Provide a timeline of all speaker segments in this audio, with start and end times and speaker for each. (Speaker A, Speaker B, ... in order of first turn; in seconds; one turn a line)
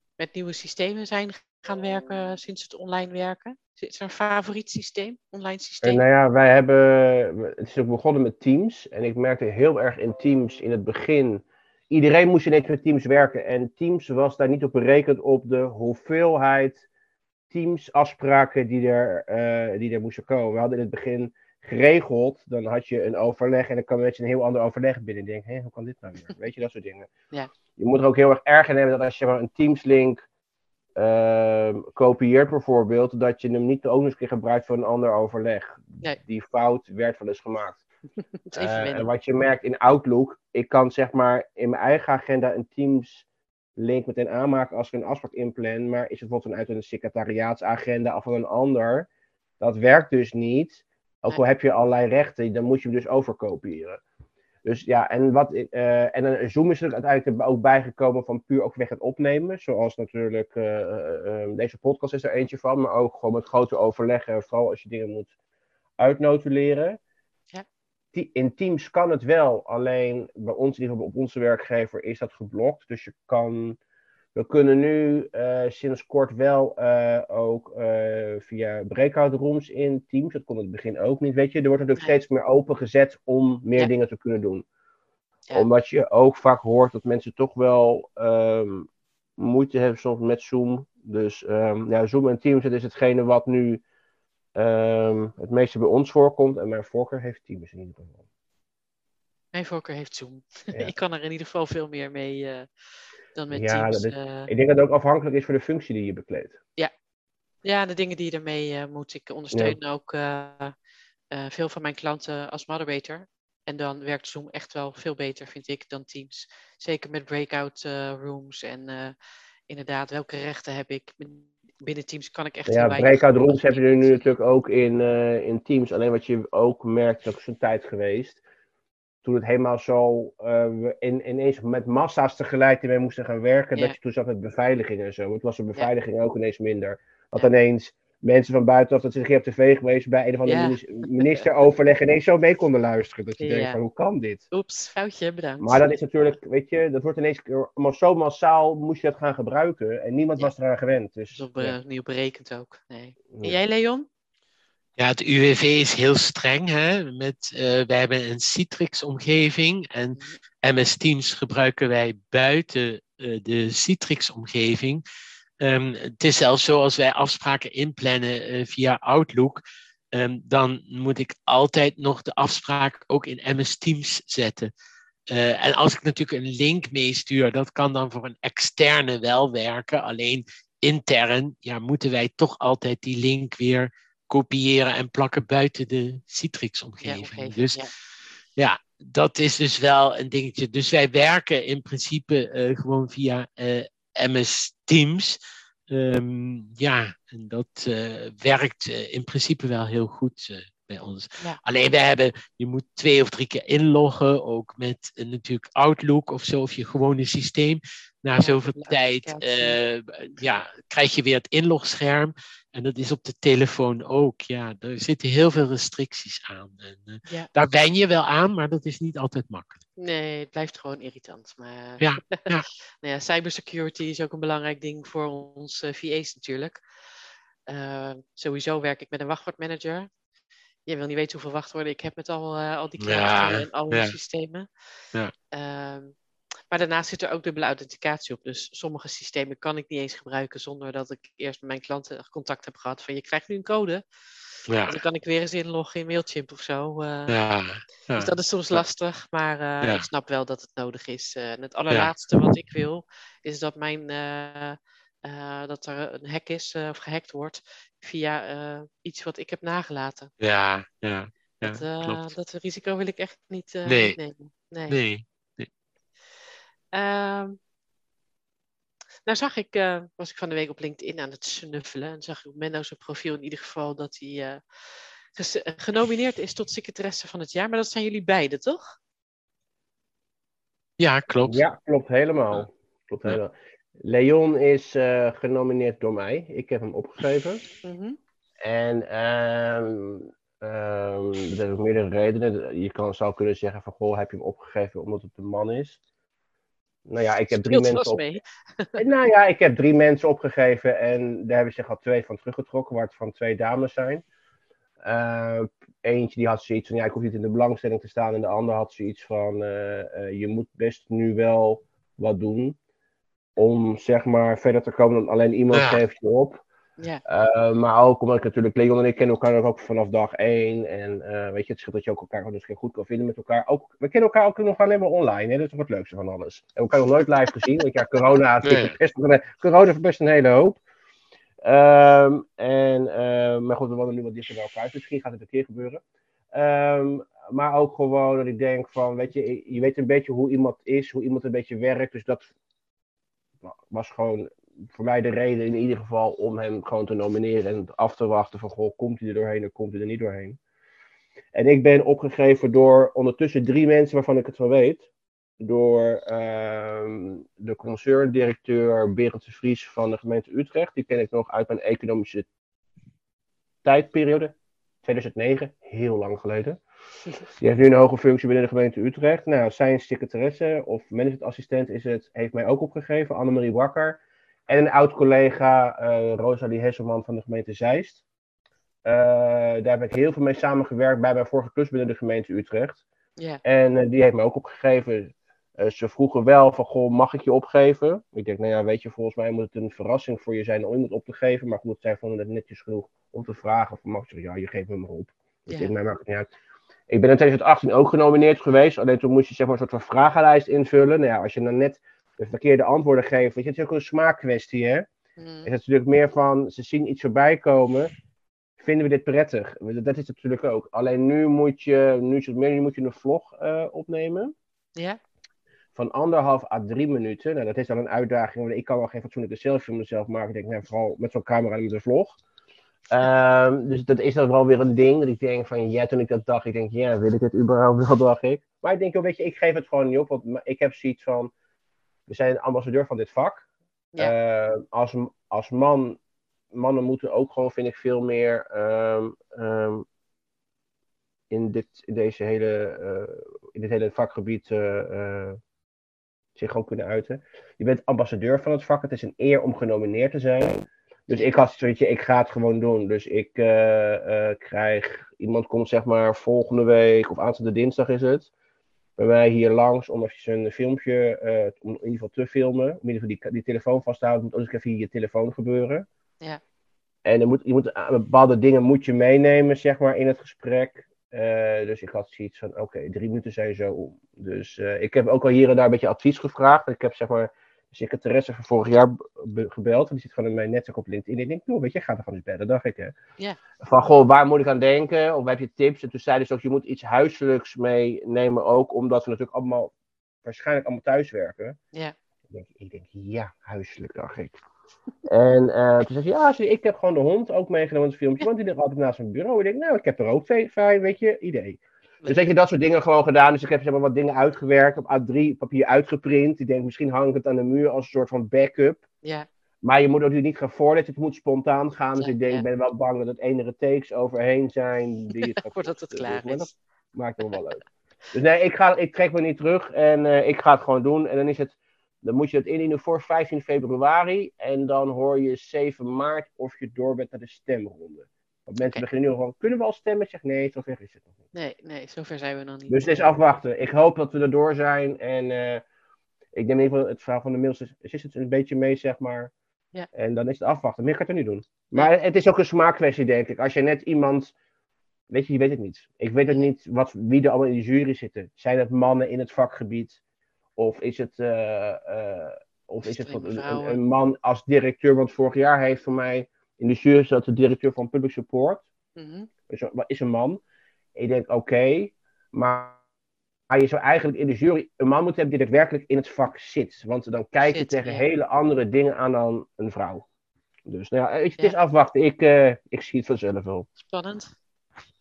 Speaker A: 0.2-6.0
Speaker B: 5.8-16.9
Speaker B: 17.5-27.1
Speaker B: 27.8-30.2
Speaker B: 31.0-37.8
Speaker A: 38.5-39.1
Speaker B: 38.5-43.2
Speaker B: 43.8-49.1
Speaker B: 49.6-54.0
Speaker B: 54.6-65.3
Speaker B: 66.0-67.0
Speaker B: 68.1-73.8
Speaker B: 74.3-84.7
Speaker B: 85.5-93.8
Speaker B: 94.5-98.2
Speaker A: 99.5-102.7
Speaker A: 103.3-104.5
Speaker B: 103.5-106.6
Speaker A: 107.6-110.8
Speaker B: 109.5-109.8
Speaker A: 111.3-119.2
Speaker A: 119.7-124.3
Speaker B: 122.7-128.4
Speaker B: 129.2-144.4
Speaker A: 140.5-141.4
Speaker A: 143.4-143.8
Speaker A: 144.5-145.8
Speaker B: 145.6-151.8
Speaker A: 151.3-154.1
Speaker B: 153.3-153.6
Speaker C: 155.0-165.0
Speaker C: 165.6-169.6
Speaker C: 170.1-174.7
Speaker C: 175.3-187.8
Speaker A: 187.0-187.9
Speaker C: 188.6-195.4
Speaker C: 195.9-219.8
Speaker A: 208.3-209.8
Speaker A: 220.0-222.5
Speaker C: 222.0-222.7
Speaker A: 223.0-226.8
Speaker A: 227.7-230.1
Speaker A: 230.9-234.7
Speaker C: 233.0-234.2
Speaker A: 235.5-236.2
Speaker A: 236.7-244.0
Speaker C: 244.7-245.0
Speaker A: 244.9-247.3
Speaker C: 247.3-248.8
Speaker A: 248.2-260.3
Speaker C: 251.9-252.6
Speaker C: 260.4-262.3
Speaker A: 261.6-265.0
Speaker C: 263.9-264.2
Speaker C: 264.9-265.7
Speaker A: 266.9-267.6
Speaker A: 269.3-274.6
Speaker A: 275.4-278.9
Speaker C: 281.0-281.6
Speaker B: 281.4-287.6
Speaker A: 287.8-288.2
Speaker B: 288.6-296.0
Speaker B: 297.1-298.2
Speaker A: 297.5-299.0
Speaker B: 299.0-304.2
Speaker B: 305.0-312.8
Speaker B: 313.6-316.6
Speaker C: 315.7-316.0
Speaker B: 317.3-330.8
Speaker C: 328.6-329.0
Speaker B: 331.6-342.5
Speaker B: 343.6-350.6
Speaker B: 351.6-355.1
Speaker B: 355.6-362.5
Speaker B: 363.8-366.8
Speaker B: 367.6-378.2
Speaker B: 379.1-383.0
Speaker B: 383.6-396.5
Speaker B: 397.1-405.1
Speaker A: 405.4-405.7
Speaker B: 405.6-408.1
Speaker B: 408.8-414.5
Speaker B: 415.9-422.4
Speaker B: 423.1-431.5
Speaker B: 432.3-433.6
Speaker B: 434.2-436.2
Speaker B: 436.7-440.1
Speaker B: 441.5-445.6
Speaker B: 446.6-458.5
Speaker A: 451.3-451.6
Speaker B: 459.2-466.1
Speaker B: 467.2-483.1
Speaker B: 483.8-489.9
Speaker B: 490.4-491.8
Speaker B: 492.5-494.6
Speaker B: 495.3-509.0
Speaker B: 509.8-517.8
Speaker A: 512.2-512.6
Speaker A: 515.5-516.7
Speaker B: 518.3-531.3
Speaker A: 531.5-533.3
Speaker B: 532.9-535.8
Speaker B: 536.5-539.5
Speaker B: 540.1-544.5
Speaker B: 545.3-550.2
Speaker B: 550.8-558.9
Speaker A: 553.0-554.0
Speaker A: 559.2-559.5
Speaker B: 559.7-560.6
Speaker B: 561.2-563.0
Speaker B: 563.7-570.2
Speaker A: 567.6-568.3
Speaker B: 570.9-573.9
Speaker A: 574.0-574.5